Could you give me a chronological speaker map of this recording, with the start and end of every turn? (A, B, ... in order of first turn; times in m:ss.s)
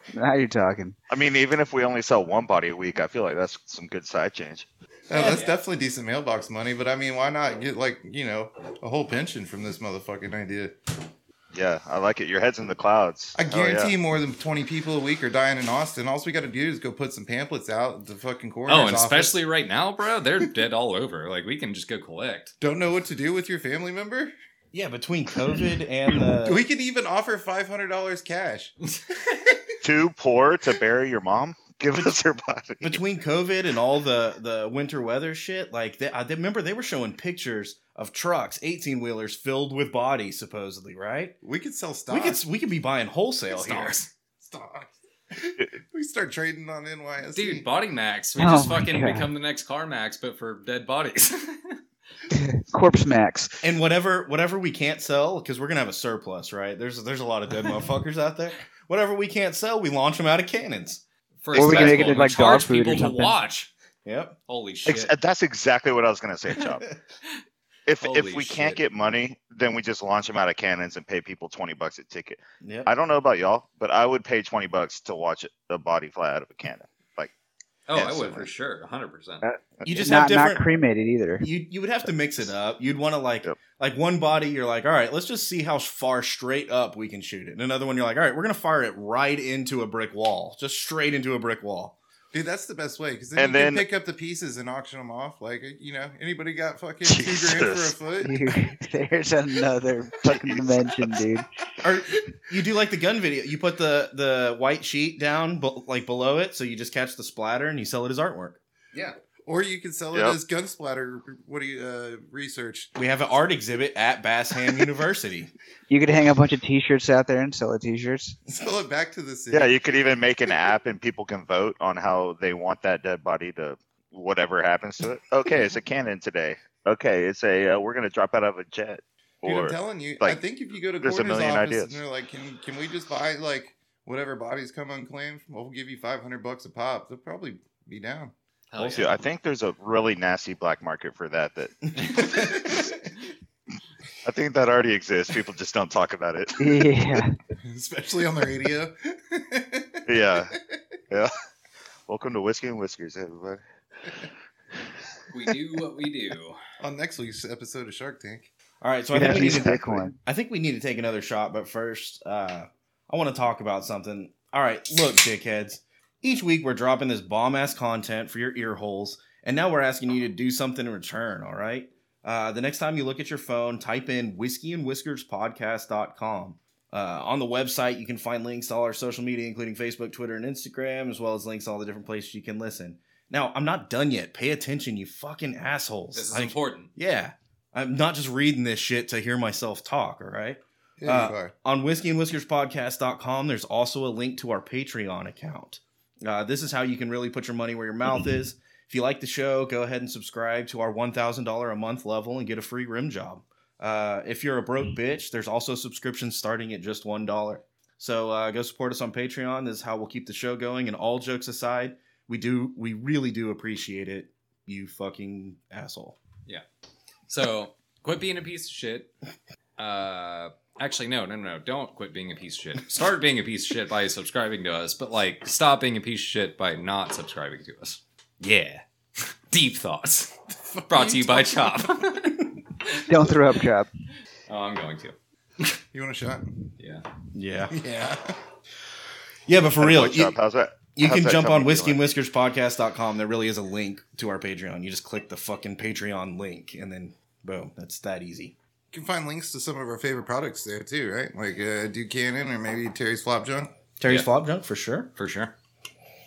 0:00.1-0:01.0 A
0:01.1-0:04.7 B
0:05.1-0:10.8 C
0:05.1-0:05.4 D
0:05.2-0:05.5 E
0:11.5-0:13.9 B
0:13.4-0:19.4 C
0:18.7-0:22.5 E
0:22.6-0:24.3 C
0:24.7-0:26.6 D
0:26.4-0:28.7 C
0:29.0-0:29.4 E
0:29.3-0:29.6 C
0:29.8-0:33.0 B
0:32.8-0:41.4 D
0:41.4-0:42.4 C
0:42.1-0:44.0 D
0:43.5-0:44.1 E
0:44.4-0:47.7 C
0:47.3-0:51.8 E
0:48.4-0:49.3 A
0:52.3-0:53.6 A
0:53.6-1:01.0 D
1:01.4-1:03.7 E
1:01.5-1:03.4 A
1:01.6-1:02.2 B
1:04.0-1:04.4 D
1:04.5-1:05.1 E
1:04.9-1:06.9 B
1:07.9-1:17.3 B
1:08.0-1:08.8 E
1:12.6-1:12.9 D
1:17.9-1:19.4 E
1:17.9-1:18.5 B
1:19.4-1:21.5 A
1:19.8-1:20.1 B
1:19.8-1:20.7 D
1:21.4-1:32.0 D
1:32.3-1:38.4 C
1:33.4-1:33.9 B
1:37.0-1:37.9 B
1:38.2-1:41.5 A
1:40.2-1:41.2 B
1:41.8-1:48.6 D
1:49.5-1:52.9 C
1:50.1-1:50.4 B
1:53.0-1:55.5 D
1:55.9-1:58.4 A
1:58.5-1:59.7 C
1:59.5-2:10.4 B
2:09.4-2:18.3 C
2:11.0-2:12.0 B
2:18.7-2:19.2 E
2:18.8-2:22.9 B
2:22.0-2:22.9 D
2:24.2-2:26.6 B
2:26.6-2:27.4 A
2:27.6-2:30.8 C
2:30.1-2:30.6 B
2:32.1-2:33.6 B
2:35.3-2:36.6 E
2:36.8-2:38.5 C
2:38.8-3:36.2 D
2:39.1-2:40.1 A
2:39.2-2:40.1 B
3:06.1-3:06.9 E
3:11.0-3:11.5 C
3:37.3-3:39.1 E
3:39.8-3:53.1 E
3:50.7-3:51.6 C
3:53.1-3:53.9 A
3:54.5-3:55.2 E
3:55.9-3:56.5 C
3:56.8-3:57.1 E
3:57.3-3:57.8 D
3:57.7-3:58.4 C
3:59.5-4:00.4 D
3:59.8-4:02.0 B
4:00.9-4:08.6 D
4:08.9-4:13.7 C
4:14.0-4:15.1 D
4:15.2-4:15.6 E